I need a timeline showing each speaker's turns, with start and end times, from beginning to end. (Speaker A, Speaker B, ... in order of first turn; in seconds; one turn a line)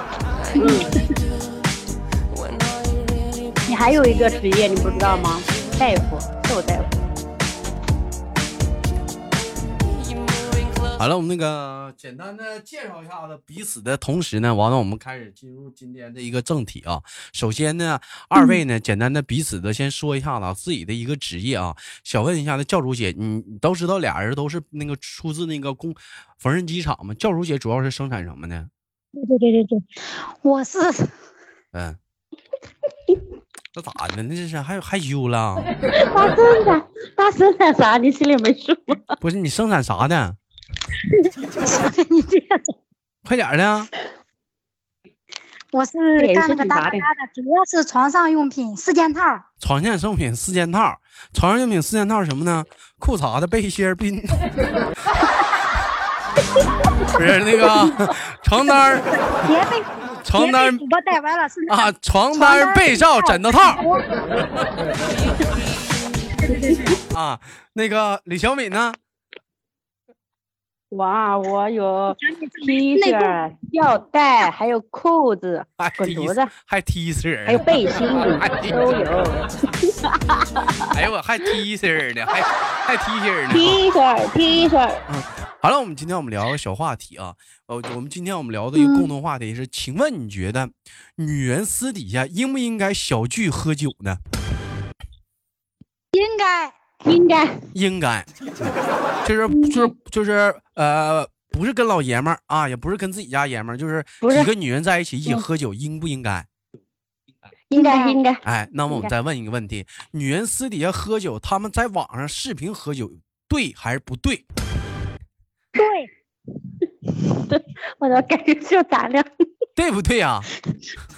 Speaker A: 0.6-1.0
Speaker A: 3.7-6.9
Speaker B: 11.0-28.7
Speaker C: 29.2-31.1
Speaker B: 31.7-32.0
Speaker B: 33.8-35.7
Speaker A: 36.0-39.1
Speaker B: 39.2-40.4
Speaker C: 41.1-42.8
Speaker B: 43.2-43.9
Speaker C: 45.7-49.5
Speaker A: 46.2-47.0
Speaker B: 49.6-54.5
Speaker B: 57.1-59.1
Speaker C: 59.3-64.0
Speaker B: 60.2-60.8
Speaker B: 61.7-63.8
Speaker C: 66.4-67.0
Speaker A: 66.5-66.9
Speaker B: 67.1-69.0
Speaker A: 70.9-76.5
Speaker C: 72.1-73.3
Speaker B: 75.8-78.8
Speaker A: 77.5-80.9
Speaker B: 80.9-83.8
Speaker A: 83.5-85.0
Speaker B: 85.1-94.2
Speaker C: 88.8-89.1
Speaker C: 96.1-96.8
Speaker A: 97.0-97.6
Speaker B: 97.7-98.7
Speaker B: 99.2-106.5
Speaker A: 99.5-99.9
Speaker A: 104.2-104.5
Speaker A: 107.7-109.1
Speaker C: 107.7-108.2
Speaker B: 108.4-114.4
Speaker C: 115.8-116.1
Speaker A: 117.5-119.3
Speaker B: 119.8-120.5